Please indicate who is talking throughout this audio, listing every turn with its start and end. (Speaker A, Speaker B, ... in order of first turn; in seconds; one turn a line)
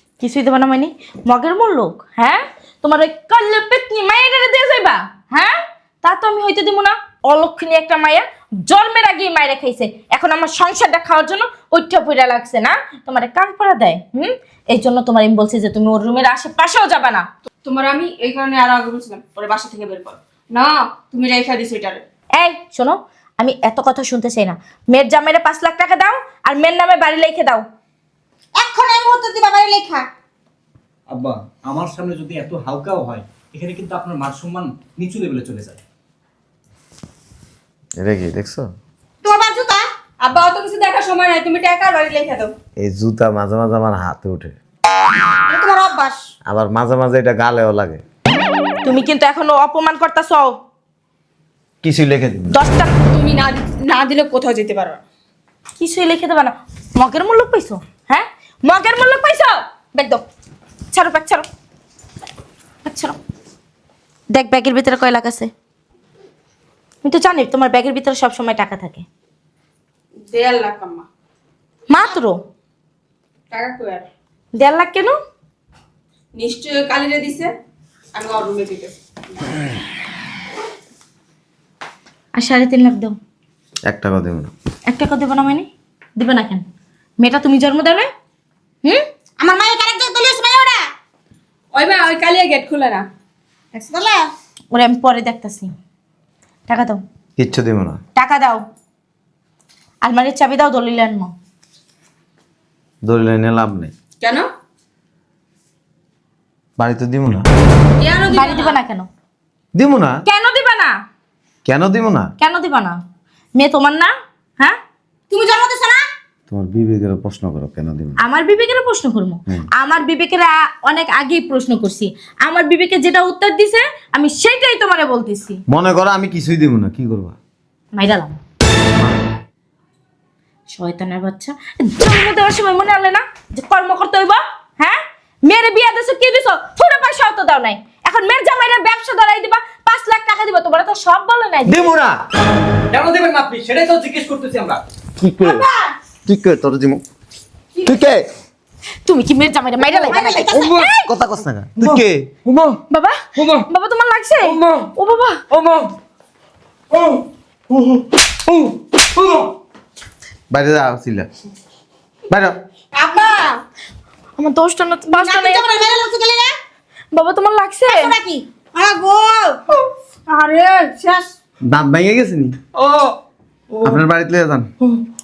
Speaker A: 0.2-17.2
Speaker B: 17.6-22.0
Speaker A: 22.4-27.6
Speaker C: 28.5-30.1
Speaker D: 31.1-35.8
Speaker E: 38.0-38.7
Speaker C: 39.2-39.8
Speaker B: 40.2-42.5
Speaker E: 42.8-44.6
Speaker C: 45.5-46.2
Speaker E: 46.5-48.0
Speaker A: 48.8-50.6
Speaker E: 51.8-52.6
Speaker A: 52.5-52.9
Speaker B: 53.1-55.0
Speaker A: 55.8-60.2
Speaker A: 60.9-61.5
Speaker A: 62.8-63.2
Speaker A: 64.3-65.5
Speaker A: 67.0-69.0
Speaker B: 70.3-71.1
Speaker A: 71.9-72.4
Speaker B: 73.5-74.1
Speaker A: 74.5-75.2
Speaker B: 76.3-77.5
Speaker B: 78.1-79.0
Speaker A: 82.3-83.2
Speaker E: 83.9-84.5
Speaker A: 84.9-86.6
Speaker A: 87.2-88.1
Speaker C: 89.4-90.8
Speaker B: 91.7-93.0
Speaker C: 93.7-94.3
Speaker A: 94.7-95.7
Speaker A: 96.7-97.0
Speaker E: 97.4-98.0
Speaker A: 98.2-98.6
Speaker A: 100.0-101.3
Speaker E: 103.0-103.9
Speaker B: 104.2-104.5
Speaker E: 106.8-107.5
Speaker B: 108.0-108.8
Speaker A: 108.3-109.1
Speaker E: 109.7-110.2
Speaker A: 110.2-110.9
Speaker E: 111.6-112.3
Speaker A: 112.4-113.0
Speaker A: 113.5-114.8
Speaker C: 115.3-116.0
Speaker E: 116.5-118.2
Speaker A: 118.2-125.6
Speaker E: 125.7-127.4
Speaker A: 127.9-128.4
Speaker E: 128.9-129.2
Speaker A: 130.7-141.9
Speaker E: 141.7-142.2
Speaker D: 142.9-144.8
Speaker E: 145.2-145.7
Speaker C: 145.4-145.9
Speaker E: 146.2-147.0
Speaker E: 147.8-148.3
Speaker A: 149.1-151.0
Speaker C: 149.9-150.7
Speaker E: 150.8-152.5
Speaker D: 151.8-152.7
Speaker A: 152.9-155.4
Speaker D: 153.3-153.7
Speaker D: 154.4-154.9
Speaker D: 155.5-155.9
Speaker D: 156.9-159.5
Speaker E: 160.5-161.3
Speaker E: 162.3-162.6
Speaker C: 162.9-163.6
Speaker A: 164.4-165.7
Speaker C: 165.2-166.5
Speaker A: 167.1-168.1
Speaker C: 167.9-169.6
Speaker C: 170.3-171.3
Speaker E: 171.6-172.6
Speaker B: 172.8-173.1
Speaker E: 173.8-174.7